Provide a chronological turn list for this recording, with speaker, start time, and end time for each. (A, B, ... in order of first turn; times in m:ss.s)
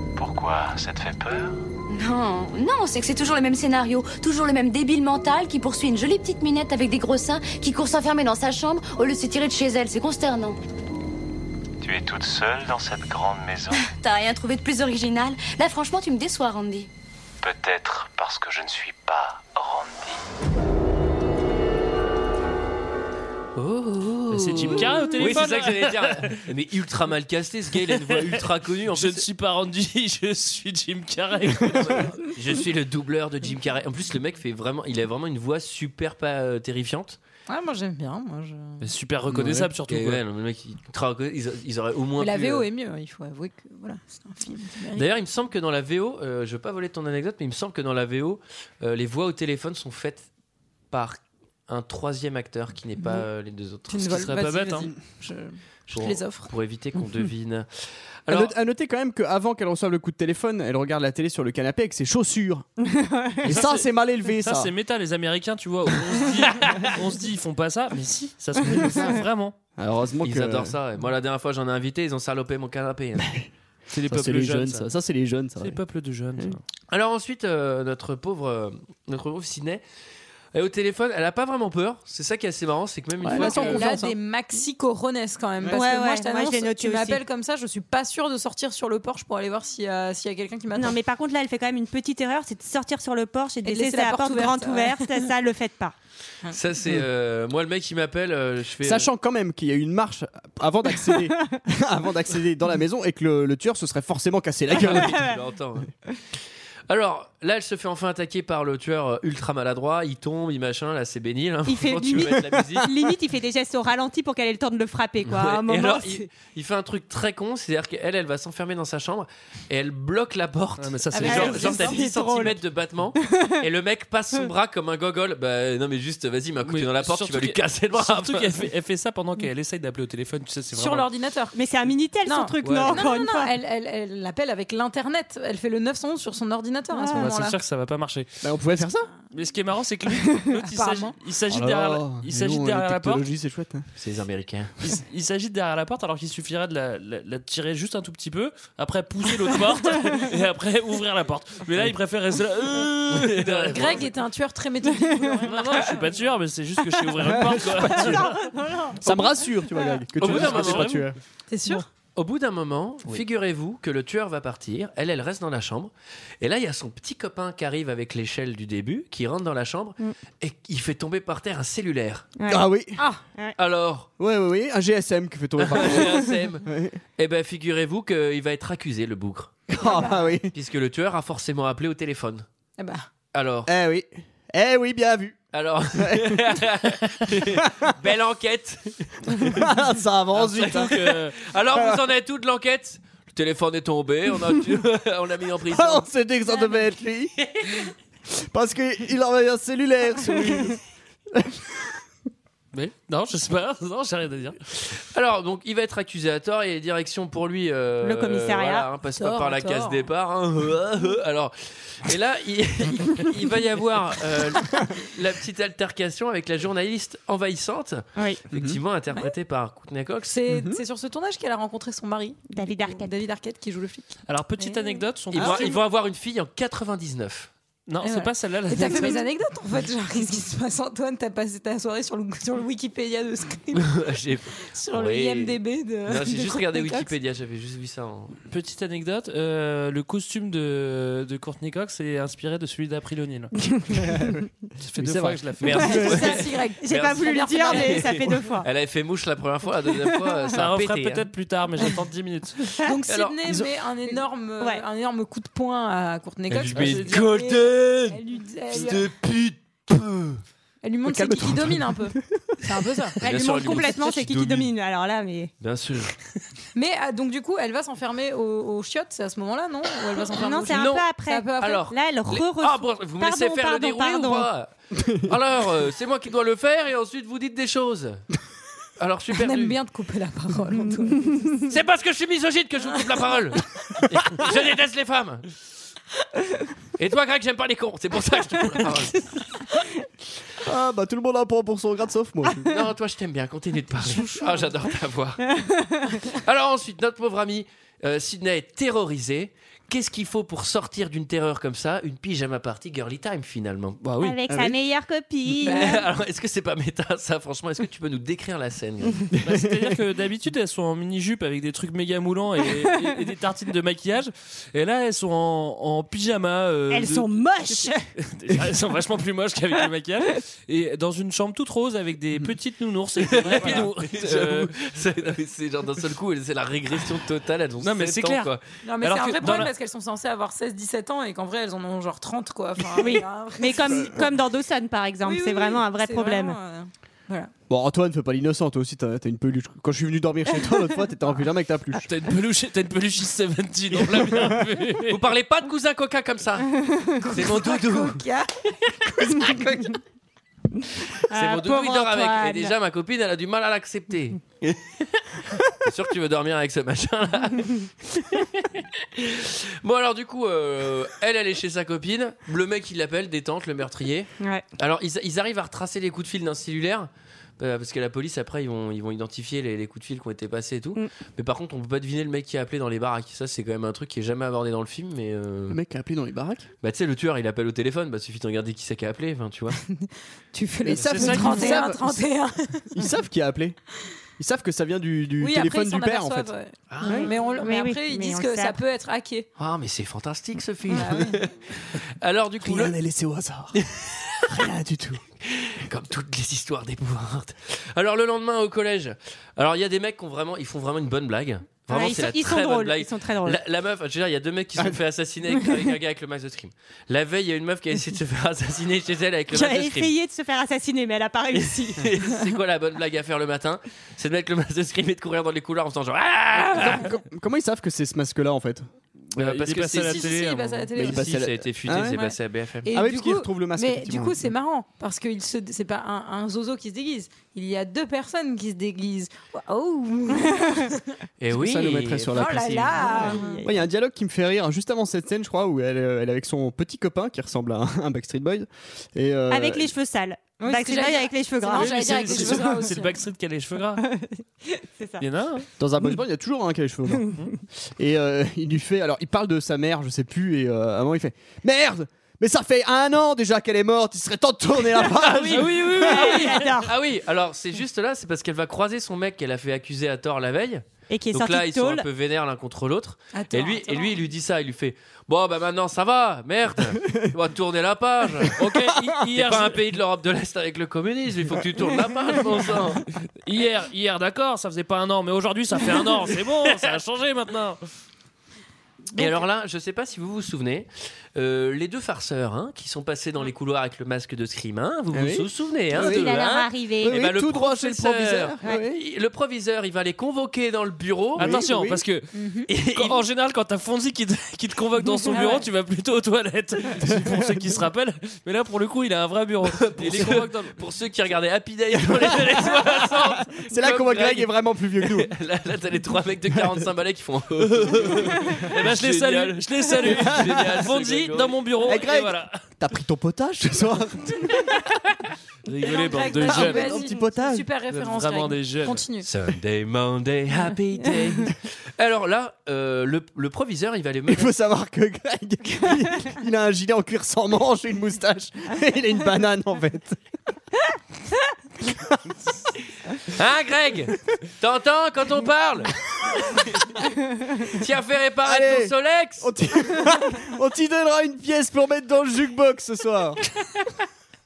0:00.2-0:01.6 A
0:01.9-0:10.6 B
0:11.8-0:13.8 A
0:13.7-0:16.9 B
0:17.4-0:20.2 A
0:23.6-0:29.2 C
0:24.3-0:26.4 D
0:27.8-0:28.4 D
0:28.9-0:32.3 D
0:31.7-0:37.2 C
0:37.5-0:38.9 E
0:38.8-0:40.2 D
0:39.3-0:42.7 C
0:42.2-0:45.1 E
0:44.9-0:50.3 C
0:50.9-0:54.3 C
0:53.0-0:53.2 E
0:53.9-0:56.5 E
0:54.1-0:54.9 D
0:55.9-0:58.5 C
0:58.3-1:02.7 F
1:02.8-1:03.4 G
1:03.4-1:04.7 F
1:03.4-1:09.5 D
1:08.7-1:09.1 F
1:09.8-1:10.8 F
1:10.2-1:13.4 C
1:13.2-1:15.8 F
1:13.9-1:14.9 D
1:15.6-1:16.6 D
1:16.9-1:19.8 C
1:20.5-1:23.8 C
1:23.2-1:24.1 F
1:23.3-1:31.0 E
1:25.7-1:27.2 G
1:30.7-1:35.9 G
1:33.6-1:35.3 E
1:36.5-1:39.1 C
1:38.8-1:45.3 F
1:44.8-1:45.9 C
1:46.9-1:52.9 C
1:51.6-1:56.3 G
1:52.5-1:52.8 F
1:55.2-2:08.6 C
2:00.8-2:01.7 D
2:01.1-2:02.0 E
2:01.2-2:02.6 G
2:03.2-2:03.6 G
2:06.6-2:11.1 D
2:10.7-2:11.5 E
2:11.5-2:13.5 G
2:12.2-2:17.6 E
2:12.6-2:13.1 D
2:16.9-2:17.3 G
2:17.1-2:18.4 D
2:18.4-2:19.1 F
2:19.3-2:23.2 D
2:20.7-2:21.2 E
2:21.5-2:23.9 F
2:24.0-2:24.7 C
2:24.8-2:34.1 D
2:33.1-2:34.1 C
2:33.7-2:36.4 E
2:35.3-2:38.4 D
2:37.2-2:38.2 F
2:38.0-2:39.0 G
2:39.0-2:41.2 F
2:40.2-2:41.0 C
2:40.2-2:41.1 D
2:41.5-2:41.8 E
2:42.2-2:52.3 C
2:52.4-2:52.7 G
2:52.5-2:53.0 F
2:53.6-2:54.1 C
2:54.2-2:57.0 F
2:55.6-2:56.6 C
2:57.2-2:59.7 C
2:59.7-3:00.5 F
2:59.8-3:00.2 E
3:00.5-3:02.4 C
3:02.8-3:03.1 E
3:03.3-3:03.7 C
3:03.6-3:05.4 F
3:05.5-3:09.7 C
3:05.9-3:06.4 F
3:07.5-3:07.9 F
3:09.4-3:10.9 F
3:10.3-3:11.4 D
3:10.6-3:16.1 C
3:11.7-3:12.0 F
3:15.7-3:17.3 F
3:17.4-3:17.9 C
3:18.5-3:20.8 F
3:21.3-3:22.0 F
3:22.7-3:24.6 D
3:24.9-3:40.4 C
3:28.0-3:28.9 G
3:29.1-3:30.1 E
3:38.5-3:38.8 F
3:40.3-3:45.7 E
3:40.5-3:40.8 F
3:42.5-3:43.2 G
3:44.2-3:45.8 D
3:45.3-3:47.5 C
3:47.9-3:49.3 D
3:48.0-3:54.1 E
3:53.7-3:58.4 C
3:54.7-3:57.1 E
3:58.5-4:03.7 D
4:03.9-4:06.3 F
4:04.8-4:06.1 D
4:05.6-4:11.3 C
4:05.8-4:08.1 E
4:06.8-4:08.7 G
4:10.1-4:10.4 G
4:10.5-4:12.7 D
4:12.8-4:19.1 E
4:13.1-4:13.4 C
4:16.5-4:18.2 C
4:16.6-4:17.3 D
4:18.7-4:20.4 C
4:20.8-4:23.2 E
4:21.0-4:22.8 F
4:23.2-4:24.7 C
4:23.2-4:25.5 G
4:25.6-4:26.2 C
4:26.7-4:31.8 E
4:30.4-4:34.5 G
4:30.7-4:31.0 C
4:31.6-4:38.2 C
4:39.0-4:39.8 C
4:39.3-4:41.7 E
4:41.7-4:45.5 C
4:47.0-4:49.3 C
4:50.6-4:52.7 F
4:52.6-4:55.5 C
4:55.4-4:56.2 G
4:56.3-5:04.0 C
5:04.0-5:04.4 D
5:04.2-5:06.0 G
5:04.5-5:04.7 F
5:05.6-5:06.0 E
5:05.6-5:09.3 C
5:09.4-5:09.9 F
5:09.4-5:24.7 D
5:16.9-5:18.0 G
5:23.2-5:28.6 C
5:27.8-5:29.7 D
5:28.8-5:34.1 E
5:33.0-5:36.6 G
5:35.2-5:37.5 E
5:37.7-5:42.0 F
5:42.1-5:45.3 D
5:44.2-5:44.5 C
5:45.1-5:48.2 C
5:46.9-5:47.1 G
5:47.2-5:48.5 E
5:49.0-5:50.0 E
5:49.0-5:49.9 C
5:51.3-5:52.7 G
5:51.3-6:15.8 C
6:15.7-6:16.7 F
6:16.8-6:19.8 C
6:19.9-6:23.0 E
6:20.8-6:22.2 F
6:21.0-6:21.8 D
6:22.9-6:23.8 F
6:24.4-6:26.5 F
6:25.4-6:29.5 E
6:26.9-6:27.3 C
6:27.0-6:28.8 G
6:29.6-6:32.9 C
6:30.9-6:31.4 E
6:32.6-6:33.8 F
6:33.8-6:34.6 C
6:34.5-6:35.2 F
6:35.4-6:50.1 C
6:41.9-6:43.6 G
6:49.5-6:52.1 G
6:51.5-6:57.1 C
6:56.6-6:58.9 F
6:59.3-7:00.9 D
6:59.4-7:00.2 C
7:00.0-7:01.4 E
7:01.0-7:02.2 F
7:01.0-7:02.9 C
7:02.1-7:11.0 E
7:02.9-7:04.5 F
7:10.3-7:10.7 G
7:11.4-7:13.4 C
7:11.5-7:19.9 F
7:12.3-7:13.6 E
7:13.0-7:13.8 G
7:19.5-7:22.8 G
7:20.6-7:23.2 E
7:21.7-7:24.1 D
7:24.0-7:25.2 G
7:25.2-7:25.7 D
7:25.8-7:27.3 F
7:28.0-7:36.0 F
7:35.1-7:48.6 C
7:35.5-7:36.8 D
7:36.0-7:36.9 G
7:41.1-7:42.0 G
7:43.3-7:44.2 E
7:48.5-7:49.8 D
7:49.3-7:53.0 C
7:53.4-7:57.8 D
7:59.2-8:11.6 C
8:05.1-8:06.3 F
8:05.9-8:07.2 G
8:07.0-8:09.0 F
8:11.3-8:12.3 D
8:11.4-8:12.0 F
8:12.3-8:12.7 E
8:12.7-8:13.2 C
8:12.9-8:20.8 D
8:15.1-8:15.6 E
8:15.3-8:15.6 G
8:17.1-8:17.6 F
8:19.6-8:31.6 C
8:22.0-8:25.3 F
8:27.9-8:32.6 D
8:30.1-8:30.7 F
8:31.8-8:34.9 F
8:35.6-8:37.0 D
8:35.8-8:39.3 E
8:36.4-8:37.7 F
8:37.9-8:39.1 D
8:39.2-8:44.5 C
8:44.3-8:50.2 F
8:51.8-8:52.4 F
8:53.2-8:56.9 C
8:57.7-8:59.5 C
8:58.4-9:03.4 F